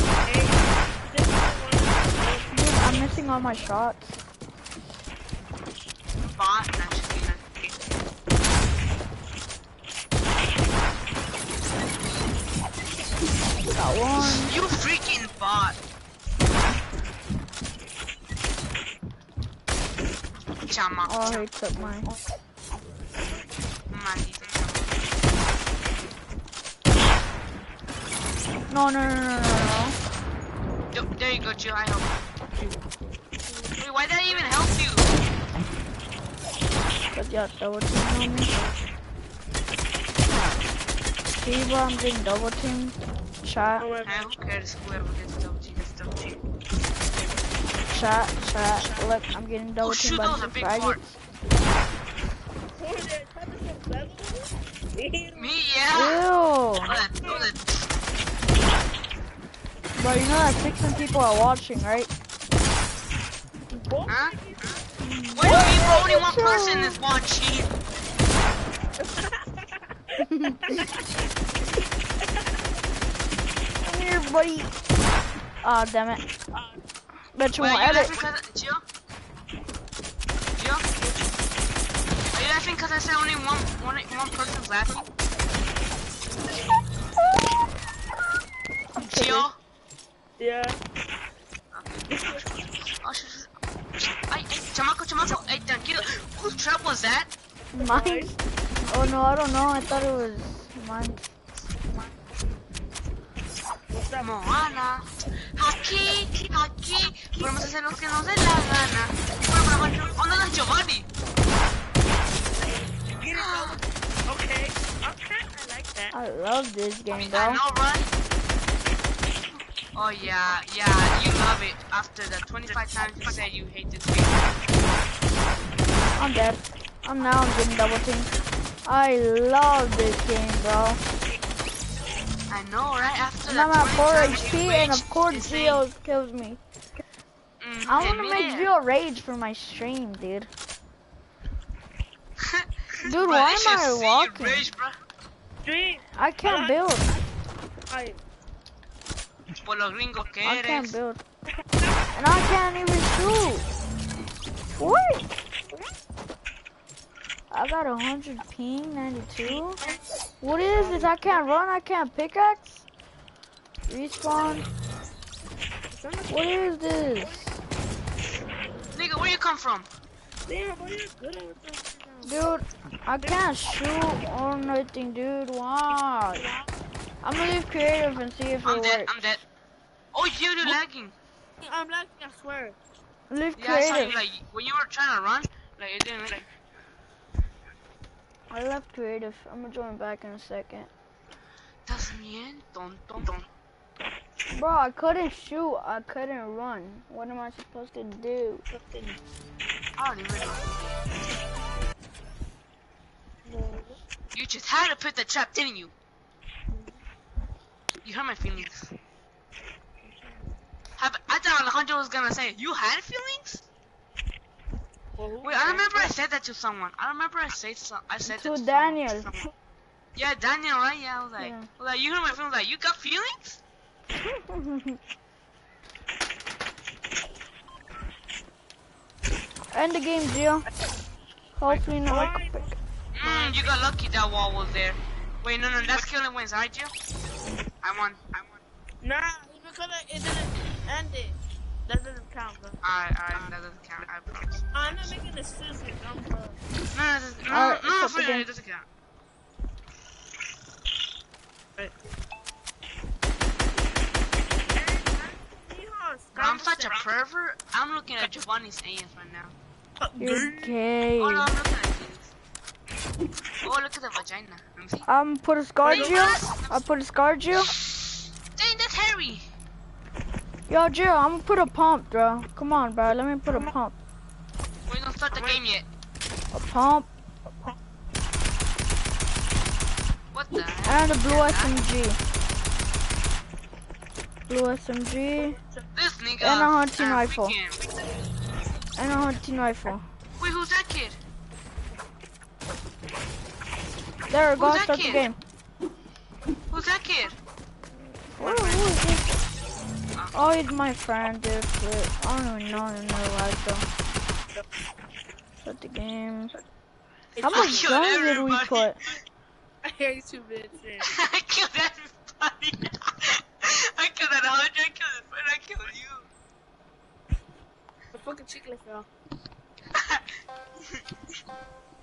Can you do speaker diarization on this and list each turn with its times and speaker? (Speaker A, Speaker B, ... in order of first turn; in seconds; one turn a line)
Speaker A: 0.2-3.2
Speaker B: 2.5-4.2
Speaker C: 6.2-7.5
Speaker B: 13.7-14.6
Speaker C: 14.2-15.8
Speaker C: 20.7-21.4
Speaker B: 21.1-22.1
Speaker C: 23.9-25.0
Speaker B: 28.7-30.0
Speaker C: 30.9-32.2
Speaker A: 33.5-34.5
Speaker C: 33.8-35.1
Speaker B: 37.1-38.7
Speaker B: 40.3-40.6
Speaker B: 41.4-43.9
Speaker A: 43.8-44.3
Speaker C: 44.0-46.4
Speaker B: 47.9-51.2
Speaker C: 49.8-51.0
Speaker A: 52.7-55.6
Speaker C: 55.3-56.2
Speaker B: 55.9-57.0
Speaker C: 56.9-57.9
Speaker A: 57.1-57.5
Speaker B: 60.0-62.1
Speaker A: 63.7-64.8
Speaker C: 64.1-64.3
Speaker B: 65.0-67.0
Speaker C: 65.3-67.7
Speaker A: 69.0-71.0
Speaker B: 70.2-70.8
Speaker A: 72.2-72.7
Speaker B: 73.8-74.7
Speaker B: 75.6-76.2
Speaker A: 76.5-76.8
Speaker B: 77.3-78.2
Speaker C: 77.6-78.8
Speaker C: 80.5-80.9
Speaker C: 82.3-85.1
Speaker B: 88.9-89.5
Speaker C: 89.0-89.5
Speaker A: 90.4-90.8
Speaker C: 91.7-93.5
Speaker A: 92.1-92.4
Speaker C: 94.3-97.3
Speaker B: 97.7-98.3
Speaker A: 97.8-98.4
Speaker B: 98.8-101.3
Speaker A: 103.9-104.5
Speaker C: 104.2-111.1
Speaker A: 113.1-116.1
Speaker C: 113.3-113.8
Speaker B: 116.1-117.6
Speaker C: 117.1-118.1
Speaker C: 119.9-124.7
Speaker B: 126.2-128.3
Speaker B: 128.8-131.0
Speaker C: 132.5-135.8
Speaker B: 133.4-136.6
Speaker C: 137.6-138.7
Speaker B: 137.9-140.5
Speaker C: 142.4-145.0
Speaker B: 143.0-144.6
Speaker A: 145.6-146.8
Speaker B: 146.1-147.1
Speaker A: 147.9-148.2
Speaker C: 149.6-150.9
Speaker B: 150.4-151.2
Speaker B: 152.1-153.7
Speaker B: 154.8-155.2
Speaker B: 157.5-159.8
Speaker A: 159.6-160.0
Speaker B: 160.4-162.8
Speaker A: 160.7-161.6
Speaker B: 163.9-164.7
Speaker A: 165.9-167.5
Speaker B: 166.3-167.6
Speaker C: 168.9-169.9
Speaker A: 170.4-172.4
Speaker B: 172.2-176.4
Speaker A: 175.9-176.7
Speaker B: 177.2-179.1
Speaker C: 178.6-179.4
Speaker C: 180.1-181.1
Speaker A: 181.6-182.8
Speaker B: 183.3-184.2
Speaker C: 183.6-186.5
Speaker B: 188.5-190.9
Speaker C: 191.8-193.4
Speaker B: 194.5-198.7
Speaker A: 198.7-199.2
Speaker C: 199.9-200.8
Speaker A: 203.4-204.0
Speaker C: 204.3-205.9
Speaker A: 206.7-207.0
Speaker C: 208.0-208.9
Speaker A: 210.0-210.6
Speaker C: 211.0-213.6
Speaker A: 215.2-216.2
Speaker C: 215.4-219.5
Speaker B: 218.2-219.3
Speaker C: 220.1-223.6
Speaker B: 221.4-221.7
Speaker B: 224.2-225.0
Speaker B: 229.7-230.7
Speaker B: 231.6-232.6
Speaker A: 232.0-232.7
Speaker C: 233.1-236.9
Speaker A: 233.2-233.6
Speaker C: 237.8-238.6
Speaker A: 239.0-242.8
Speaker C: 242.8-245.2
Speaker A: 244.7-246.6
Speaker C: 246.9-248.8
Speaker B: 247.5-248.4
Speaker A: 254.6-257.1
Speaker C: 256.3-259.5
Speaker A: 260.0-260.8
Speaker B: 260.2-261.5
Speaker C: 261.2-262.3
Speaker C: 263.6-265.1
Speaker B: 265.1-267.7
Speaker A: 265.8-266.3
Speaker C: 265.9-266.8
Speaker C: 267.5-269.5
Speaker B: 270.7-274.0
Speaker C: 274.9-275.9
Speaker A: 275.3-275.6
Speaker B: 276.5-277.1
Speaker C: 280.3-281.8
Speaker B: 280.8-282.2
Speaker B: 284.5-285.6
Speaker C: 285.9-287.8
Speaker B: 286.4-287.5
Speaker B: 288.9-290.1
Speaker C: 290.4-291.2
Speaker B: 294.3-295.4
Speaker C: 294.6-295.2
Speaker C: 296.7-297.4
Speaker B: 298.4-299.4
Speaker C: 298.4-298.9
Speaker B: 300.3-303.9
Speaker B: 305.6-306.6
Speaker A: 307.4-307.9
Speaker B: 307.4-309.0
Speaker C: 307.5-308.9
Speaker A: 309.8-311.1
Speaker C: 311.0-316.3
Speaker A: 318.1-319.1
Speaker C: 319.9-320.3